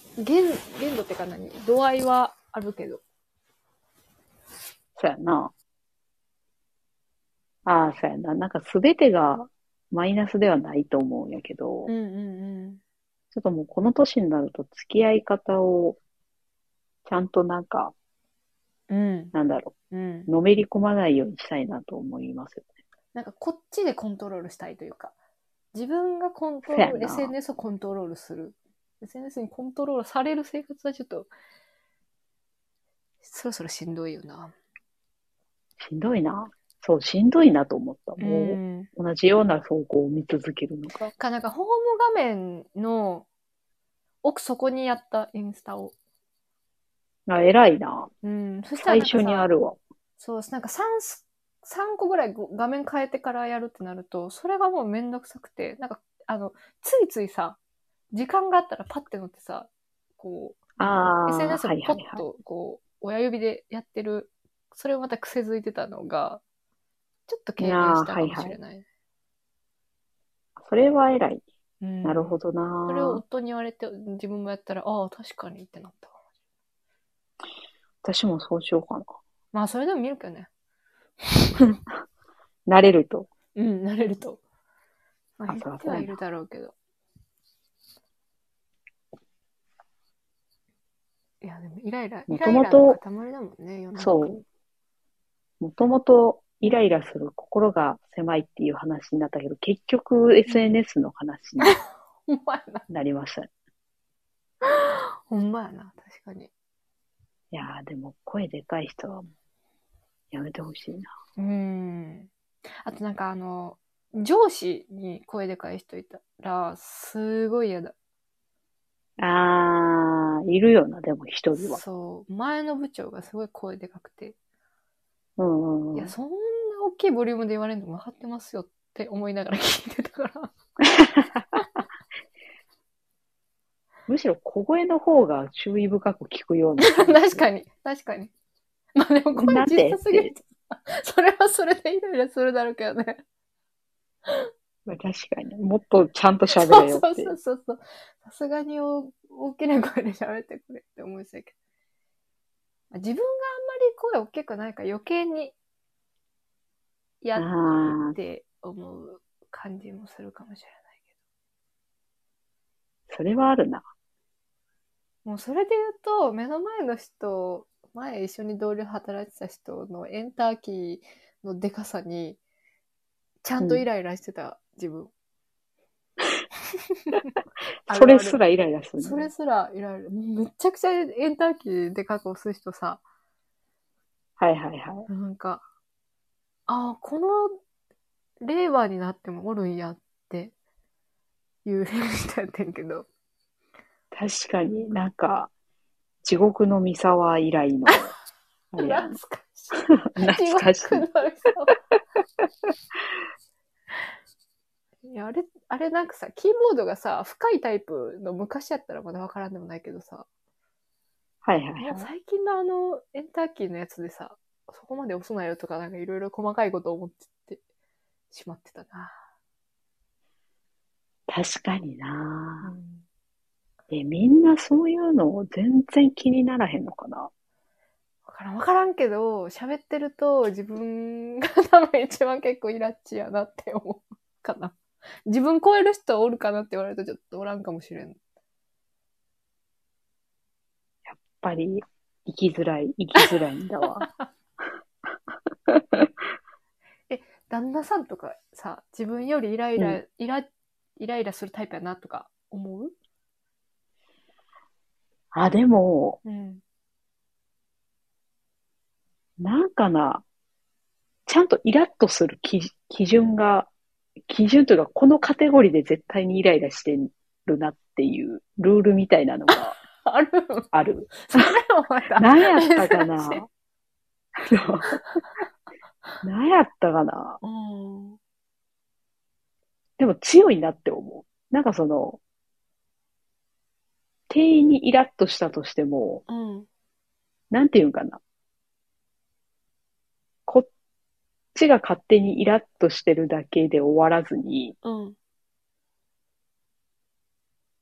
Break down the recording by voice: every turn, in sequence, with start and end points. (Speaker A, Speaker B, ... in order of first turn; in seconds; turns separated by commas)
Speaker A: 0.2-3.0, Speaker B: 5.0-5.5, Speaker B: 7.7-11.9, Speaker A: 11.9-12.8, Speaker B: 13.3-16.0, Speaker B: 17.1-17.9, Speaker A: 18.9-19.3, Speaker B: 19.3-19.8, Speaker A: 19.9-20.3, Speaker B: 20.3-22.7, Speaker A: 23.1-25.1, Speaker A: 25.7-31.3, Speaker B: 26.7-27.3, Speaker A: 33.2-34.5, Speaker B: 35.8-41.1, Speaker A: 38.2-38.9, Speaker A: 41.1-43.3, Speaker A: 44.2-45.9, Speaker B: 47.3-48.1, Speaker A: 48.2-49.5, Speaker B: 48.8-49.8, Speaker A: 50.2-57.6, Speaker A: 58.1-60.6, Speaker B: 60.8-62.2, Speaker A: 61.3-66.4, Speaker A: 67.3-68.8, Speaker B: 67.6-68.5, Speaker B: 70.6-71.4, Speaker A: 71.8-76.2, Speaker B: 72.0-73.2, Speaker B: 78.0-79.2, Speaker A: 79.5-80.5, Speaker B: 82.7-83.3, Speaker A: 83.6-84.4, Speaker A: 85.4-86.7, Speaker B: 85.5-86.2, Speaker A: 91.4-94.3, Speaker B: 92.3-93.0, Speaker B: 94.0-94.4, Speaker B: 95.6-101.8, Speaker A: 100.5-100.7, Speaker A: 101.6-102.8, Speaker B: 102.9-103.5, Speaker A: 104.6-106.5, Speaker B: 107.5-109.3, Speaker B: 110.3-111.1, Speaker A: 111.4-112.3, Speaker A: 112.8-117.9, Speaker B: 119.2-121.8, Speaker A: 121.6-124.3, Speaker B: 125.4-126.1, Speaker A: 125.9-130.5, Speaker B: 130.8-131.6, Speaker B: 134.1-137.4, Speaker A: 136.8-138.3, Speaker A: 139.0-143.2, Speaker B: 139.4-140.3, Speaker B: 144.9-147.3, Speaker A: 146.5-151.5, Speaker A: 152.9-155.5, Speaker A: 157.2-160.9, Speaker B: 157.4-158.2, Speaker B: 163.1-163.8, Speaker A: 165.2-172.4, Speaker A: 173.4-175.1, Speaker A: 176.9-177.3, Speaker A: 177.9-178.4, Speaker B: 177.9-179.3, Speaker A: 179.0-183.0, Speaker B: 184.4-185.1, Speaker A: 185.1-185.6, Speaker A: 186.7-187.6, Speaker A: 188.4-190.5, Speaker A: 191.7-193.1, Speaker B: 194.1-195.5, Speaker B: 196.2-198.1, Speaker B: 198.7-199.2, Speaker A: 198.8-201.8, Speaker B: 200.1-201.1, Speaker A: 205.0-210.3, Speaker B: 211.4-212.1, Speaker A: 211.8-217.6, Speaker A: 218.3-219.2, Speaker B: 221.3-222.7, Speaker A: 222.6-223.0, Speaker B: 223.9-227.3, Speaker A: 228.3-238.2, Speaker B: 241.1-244.1, Speaker A: 243.9-244.3, Speaker B: 245.7-246.1, Speaker A: 247.1-252.9, Speaker B: 255.3-256.2, Speaker A: 256.2-256.6, Speaker B: 259.4-260.2, Speaker B: 261.3-263.7, Speaker B: 264.3-269.8, Speaker A: 269.5-273.4, Speaker B: 270.7-271.5, Speaker B: 272.2-273.4, Speaker B: 274.4-275.0, Speaker A: 274.9-275.1, Speaker B: 276.2-277.4, Speaker A: 277.4-278.2, Speaker B: 280.0-282.2, Speaker B: 284.3-286.2, Speaker A: 286.3-286.7, Speaker B: 287.5-288.2, Speaker B: 291.6-294.8, Speaker A: 294.8-295.2